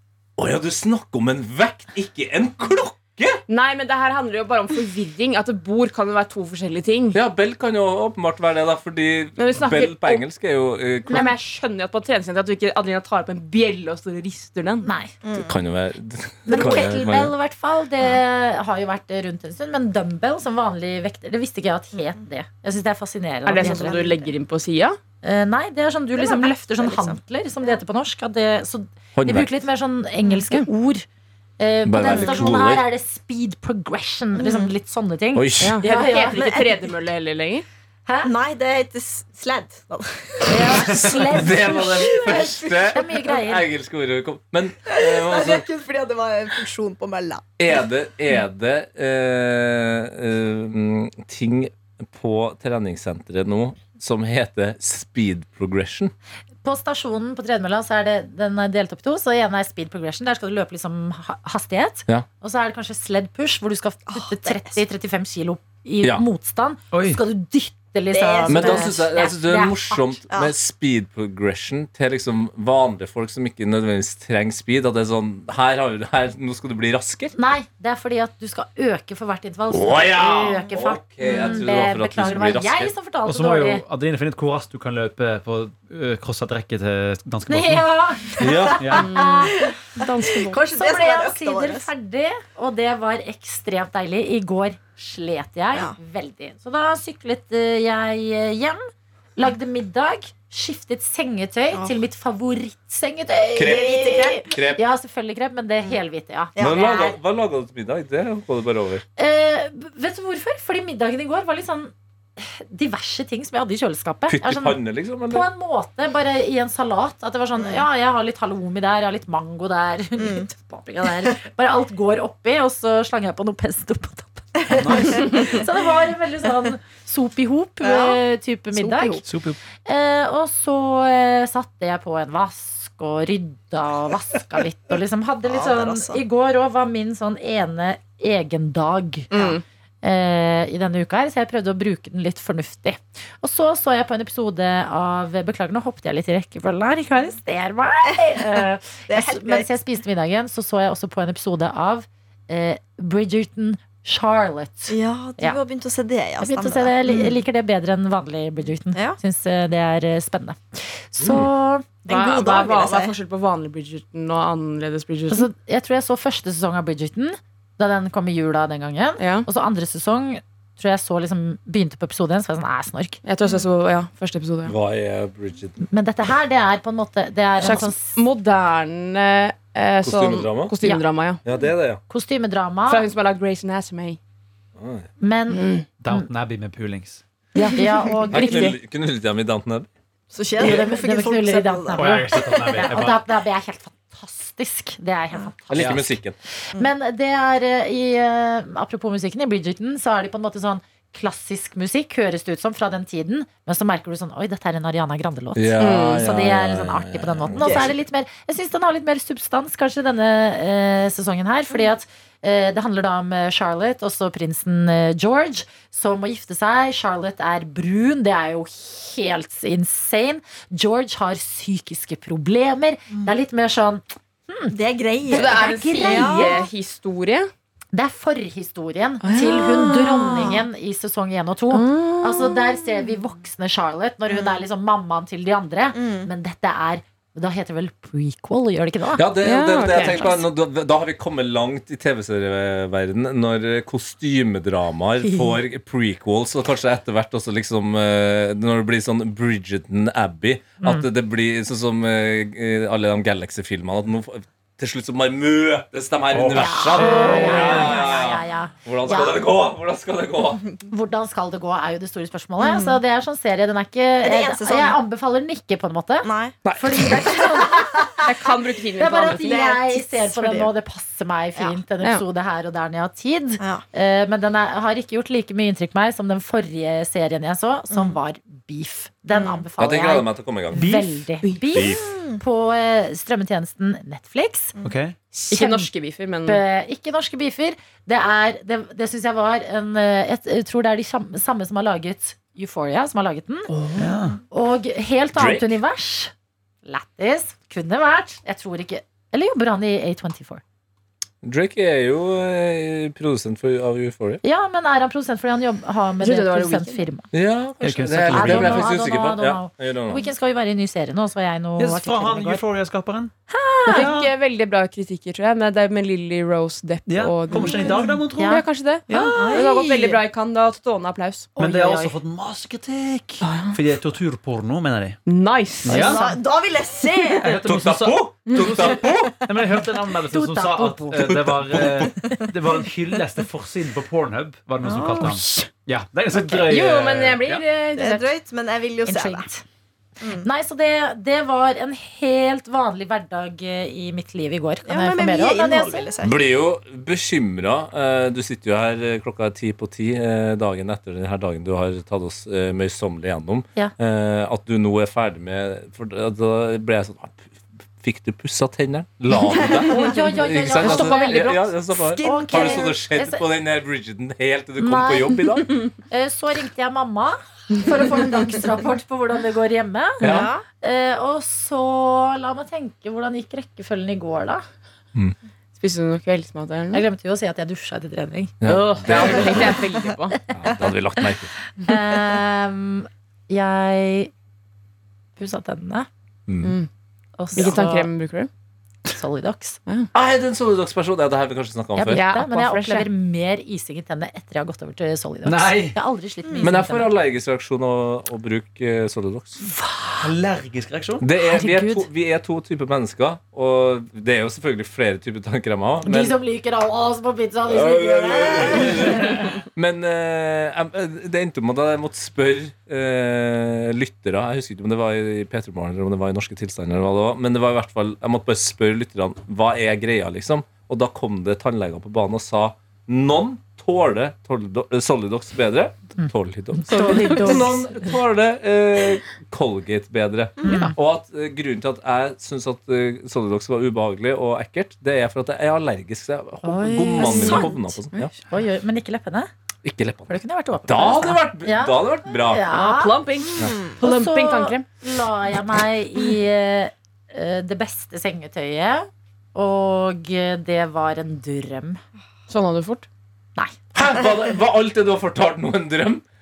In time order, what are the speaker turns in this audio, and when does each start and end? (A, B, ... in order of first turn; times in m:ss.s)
0:00.4-0:03.4 A
0:03.5-0:07.2 B
0:07.1-0:11.3 A
0:09.4-0:10.2 B
0:11.1-0:14.9 B
0:14.8-0:15.1 C
0:15.2-0:15.6 D
0:15.3-0:17.3 A
0:16.5-0:24.3 C
0:16.5-0:16.8 D
0:23.4-0:25.0 B
0:23.6-0:24.1 D
0:25.2-0:31.0 C
0:26.2-0:27.2 D
0:29.1-0:29.5 A
0:31.6-0:36.7 C
0:31.8-0:32.8 A
0:32.1-0:32.4 D
0:34.4-0:34.7 D
0:35.3-0:35.8 A
0:35.6-0:37.6 B
0:36.3-0:36.8 D
0:38.2-0:43.2 D
0:40.5-0:43.7 C
0:40.8-0:45.7 A
0:44.9-0:47.4 D
0:47.6-0:56.1 A
0:56.6-1:10.2 C
1:04.1-1:04.8 D
1:06.9-1:07.2 E
1:08.1-1:08.9 D
1:08.5-1:17.3 A
1:17.3-1:23.8 C
1:19.7-1:22.9 A
1:23.2-1:28.0 E
1:27.5-1:29.7 C
1:28.4-1:28.9 A
1:28.4-1:31.9 D
1:28.8-1:29.1 E
1:28.9-1:30.6 B
1:30.7-1:38.8 C
1:39.4-1:47.2 C
1:43.5-1:44.8 A
1:43.6-1:44.5 D
1:46.6-1:46.9 D
1:46.6-1:49.0 A
1:49.2-1:54.8 C
1:54.3-1:55.5 A
1:55.3-2:09.2 C
2:00.2-2:00.5 D
2:04.7-2:05.5 E
2:04.8-2:05.7 D
2:07.8-2:08.2 D
2:08.8-2:09.2 D
2:09.2-2:09.6 E
2:09.8-2:19.5 C
2:15.4-2:16.2 D
2:19.3-2:19.6 D
2:19.3-2:19.6 B
2:20.0-2:35.6 C
2:29.1-2:29.7 D
2:34.9-2:37.4 D
2:36.4-2:42.6 C
2:41.2-2:41.5 A
2:42.1-2:45.5 B
2:42.1-2:43.1 D
2:45.3-2:53.2 C
2:49.2-2:49.5 B
2:53.2-2:54.7 B
2:54.6-2:55.8 A
2:55.9-2:58.2 C
2:57.6-3:01.4 B
3:00.0-3:00.7 A
3:01.4-3:02.0 A
3:02.1-3:03.1 C
3:02.9-3:04.2 B
3:04.8-3:05.1 A
3:05.2-3:06.3 C
3:05.5-3:05.8 B
3:06.0-3:07.2 E
3:07.5-3:08.8 B
3:07.7-3:08.8 C
3:08.3-3:09.9 A
3:10.3-3:12.9 D
3:10.6-3:16.2 C
3:11.9-3:13.2 E
3:15.7-3:16.3 A
3:15.8-3:16.0 E
3:16.7-3:44.7 C
3:25.6-3:27.9 A
3:27.6-3:28.0 D
3:44.7-3:46.6 D
3:45.3-3:47.5 B
3:45.3-3:46.7 C
3:47.9-3:59.3 C
3:49.2-3:50.5 B
3:49.3-3:50.6 D
3:51.7-3:52.7 B
3:54.3-3:54.6 D
3:55.9-3:56.3 D
3:59.2-4:20.6 A
3:59.4-4:00.4 B
3:59.9-4:00.4 C
4:05.2-4:05.6 C
4:10.8-4:11.0 C
4:16.3-4:17.8 E
4:16.5-4:19.4 C
4:20.9-4:28.1 C
4:22.6-4:23.0 D
4:24.2-4:25.0 D
4:26.2-4:28.3 D
4:26.6-4:27.2 A
4:28.2-4:29.5 B
4:29.0-4:44.7 C
4:29.2-4:30.7 D
4:37.9-4:38.2 D
4:39.3-4:39.6 D
4:39.8-4:40.8 A
4:40.8-4:41.2 E
4:41.7-4:42.1 A
4:41.8-4:42.4 D
4:44.8-4:45.2 E
4:45.3-4:45.9 C
4:45.5-4:46.6 B
4:46.4-4:53.8 C
4:53.7-4:54.4 E
4:54.5-4:56.3 C
4:55.3-4:55.8 A
4:56.8-5:00.6 C
5:01.4-5:04.4 A
5:04.4-5:07.3 C
5:06.2-5:07.1 B
5:07.3-5:10.2 A
5:07.8-5:08.9 E
5:08.3-5:12.6 C
5:11.8-5:13.3 E
5:13.5-5:14.1 C
5:13.9-5:21.5 B
5:13.9-5:14.3 E
5:17.0-5:19.5 E
5:17.5-5:19.7 C
5:19.4-5:20.2 D
5:21.6-5:22.2 C
5:21.6-5:25.2 E
5:23.4-5:23.8 B
5:25.2-5:26.3 B
5:25.8-5:26.3 E
5:25.9-5:27.8 D
5:27.4-5:37.6 E
5:27.6-5:29.4 A
5:30.3-5:31.3 C
5:31.1-5:32.1 A
5:34.8-5:35.6 B
5:36.5-5:38.3 B
5:38.0-5:39.4 D
5:39.0-5:39.6 C
5:40.2-5:40.5 D
5:40.4-5:46.1 C
5:44.8-5:46.4 D
5:46.2-6:05.7 A
5:59.6-6:03.4 C
5:59.6-6:00.1 D
6:00.8-6:01.1 D
6:02.2-6:02.9 D
6:04.8-6:14.6 C
6:10.2-6:10.5 A
6:10.2-6:10.6 D
6:15.8-6:17.0 B
6:16.9-6:19.8 C
6:18.6-6:19.8 A
6:18.6-6:20.4 B
6:20.5-6:21.5 A
6:21.8-6:24.3 C
6:25.4-6:26.1 C
6:26.5-6:26.7 A
6:26.6-6:26.9 B
6:27.4-6:28.1 C
6:27.5-6:28.5 B
6:29.1-6:29.8 C
6:30.1-6:32.2 A
6:31.9-6:37.1 C
6:32.1-6:33.1 B
6:35.4-6:36.0 E
6:36.4-6:36.7 D
6:36.6-6:39.6 A
6:39.6-6:40.3 C
6:40.1-6:41.2 E
6:41.2-6:46.3 A
6:41.4-6:42.1 C
6:46.0-6:49.5 C
6:47.6-7:18.3 A
7:06.2-7:08.2 C
7:10.6-7:10.9 C
7:16.6-7:19.5 C
7:17.2-7:17.6 B
7:19.8-7:20.3 A
7:20.3-7:32.0 C
7:20.8-7:22.6 A
7:22.7-7:24.8 B
7:32.5-7:33.1 B
7:33.9-7:36.2 A